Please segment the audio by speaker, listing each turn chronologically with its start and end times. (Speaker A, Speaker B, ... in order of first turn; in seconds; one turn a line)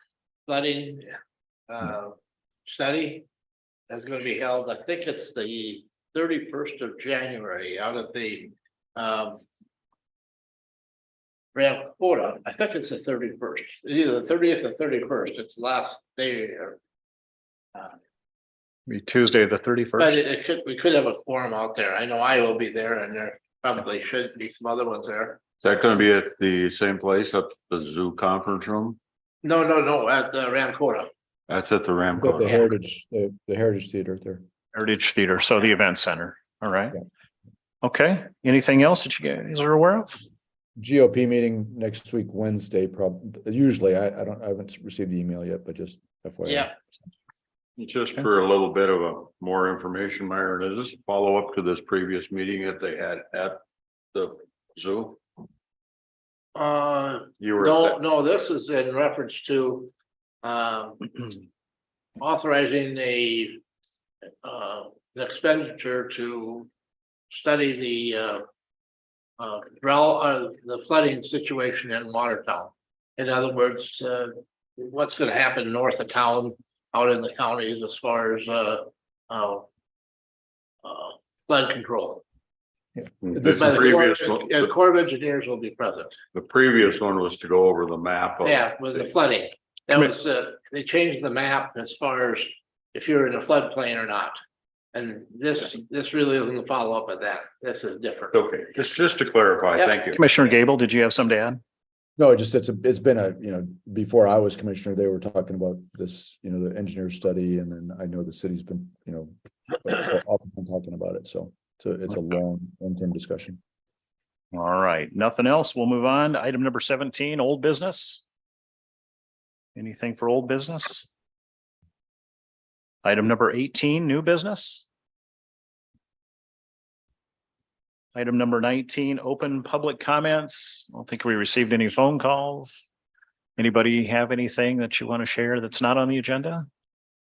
Speaker A: 0.5-1.1
Speaker A: 1.7-2.1
Speaker A: 2.7-3.3
Speaker A: 3.9-9.4
Speaker A: 11.5-16.8
Speaker B: 18.9-20.2
Speaker A: 20.0-25.4
Speaker C: 25.6-29.0
Speaker A: 29.4-31.1
Speaker C: 31.5-32.6
Speaker D: 32.2-34.4
Speaker B: 34.7-37.0
Speaker B: 37.8-40.2
Speaker D: 40.8-47.0
Speaker A: 46.5-46.7
Speaker C: 47.8-53.6
Speaker C: 54.1-55.2
Speaker A: 56.5-59.9
Speaker C: 57.4-58.0
Speaker A: 60.4-61.3
Speaker A: 62.2-63.6
Speaker A: 64.4-66.7
Speaker A: 67.3-68.4
Speaker A: 69.4-79.7
Speaker A: 80.8-82.2
Speaker D: 83.0-83.7
Speaker C: 83.2-84.7
Speaker A: 83.5-86.2
Speaker C: 86.3-89.0
Speaker A: 88.4-94.4
Speaker A: 94.9-98.4
Speaker C: 98.3-100.2
Speaker B: 100.1-101.6
Speaker D: 102.2-113.6
Speaker B: 114.5-118.2
Speaker B: 119.8-121.1
Speaker B: 123.0-124.8
Speaker B: 128.2-132.8
Speaker B: 133.6-136.7